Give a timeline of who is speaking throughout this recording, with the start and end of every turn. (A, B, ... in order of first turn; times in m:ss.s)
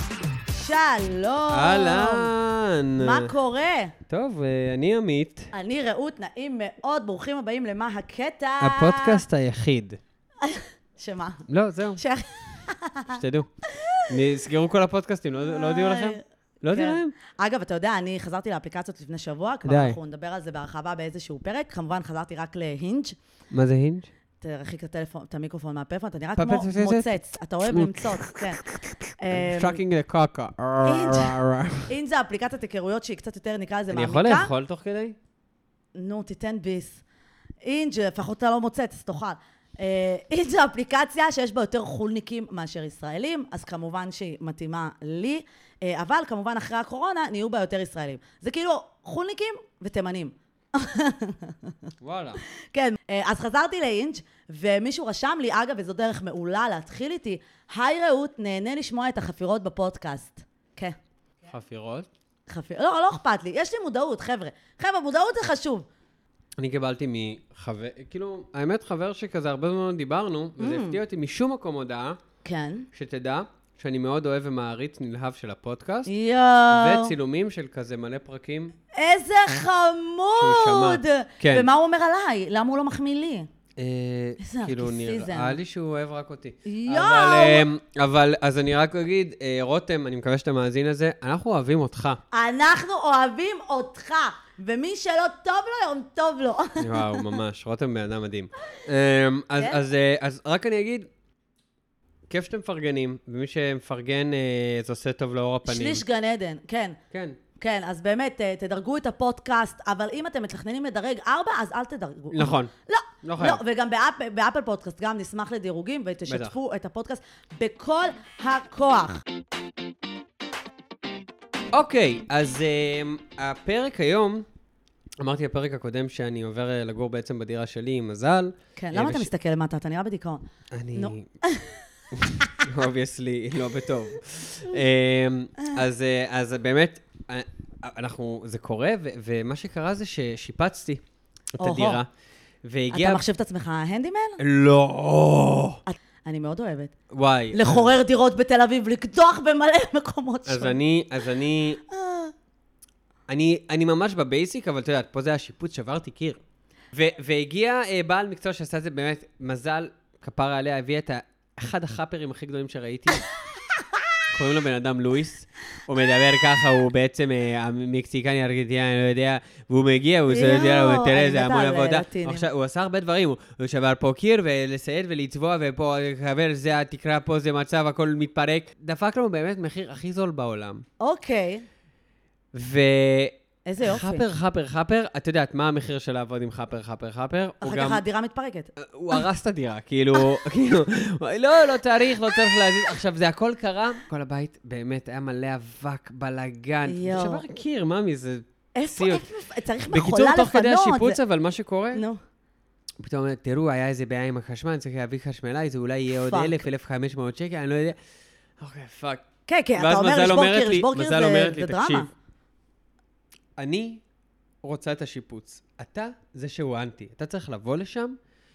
0:00.5-0:02.3 A
0:01.5-0:03.3 B
0:03.0-0:03.9 A
0:04.1-0:05.5 B
0:05.5-0:09.2 A
0:08.6-0:10.0 B
0:10.4-0:11.4 A
0:11.5-0:12.0 B
0:12.0-0:13.2 A
0:13.1-0:13.5 B
0:13.8-0:14.0 A
0:14.1-0:17.1 B
0:15.4-0:23.2 A
0:19.6-0:20.0 B
0:23.5-0:24.1 B
0:24.4-0:28.6 A
0:26.4-0:27.1 B
0:27.7-0:31.9 B
0:29.2-0:29.8 A
0:30.8-0:31.4 A
0:31.9-0:34.5 A
0:33.9-0:35.2 B
0:36.0-0:37.0 A
0:37.6-0:51.7 A
0:52.0-0:52.4 B
0:52.7-1:01.0 A
1:01.4-1:02.1 B
1:02.5-1:05.8 A
1:06.6-1:12.2 B
1:10.6-1:11.0 A
1:12.4-1:12.9 A
1:12.9-1:16.1 B
1:16.1-1:17.1 A
1:16.7-1:18.8 B
1:18.9-1:23.5 A
1:20.4-1:21.7 B
1:23.8-1:32.2 B
1:24.4-1:25.6 A
1:26.7-1:27.7 A
1:32.3-1:37.2 A
1:36.8-1:41.1 B
1:42.3-1:46.0 B
1:45.6-1:47.0 A
1:47.1-1:47.4 B
1:47.6-1:59.2 A
1:52.3-1:52.7 B
1:53.2-1:53.6 B
1:56.3-1:56.5 B
2:01.7-2:04.4 B
2:05.2-2:09.3 B
2:08.8-2:11.8 A
2:10.7-2:11.3 B
2:12.1-2:21.0 B
2:21.6-2:22.1 B
2:21.6-2:22.0 A
2:22.6-2:23.2 B
2:22.9-2:24.4 A
2:24.4-2:25.8 B
2:25.8-2:26.9 A
2:27.1-2:27.9 B
2:27.5-2:30.8 A
2:30.4-2:31.8 B
2:31.9-2:32.3 A
2:33.3-2:36.4 B
2:36.9-2:43.2 B
2:44.3-3:00.8 B
2:50.3-2:52.5 A
3:01.0-3:01.6 A
3:02.5-3:08.0 B
3:03.7-3:04.3 A
3:07.6-3:09.2 A
3:08.8-3:19.3 B
3:16.8-3:17.4 A
3:18.8-3:21.2 A
3:19.9-3:22.0 B
3:21.9-3:22.2 A
3:23.0-3:28.0 B
3:26.1-3:26.6 A
3:28.6-3:32.1 B
3:29.5-3:32.1 A
3:33.6-3:34.0 B
3:34.6-3:38.2 B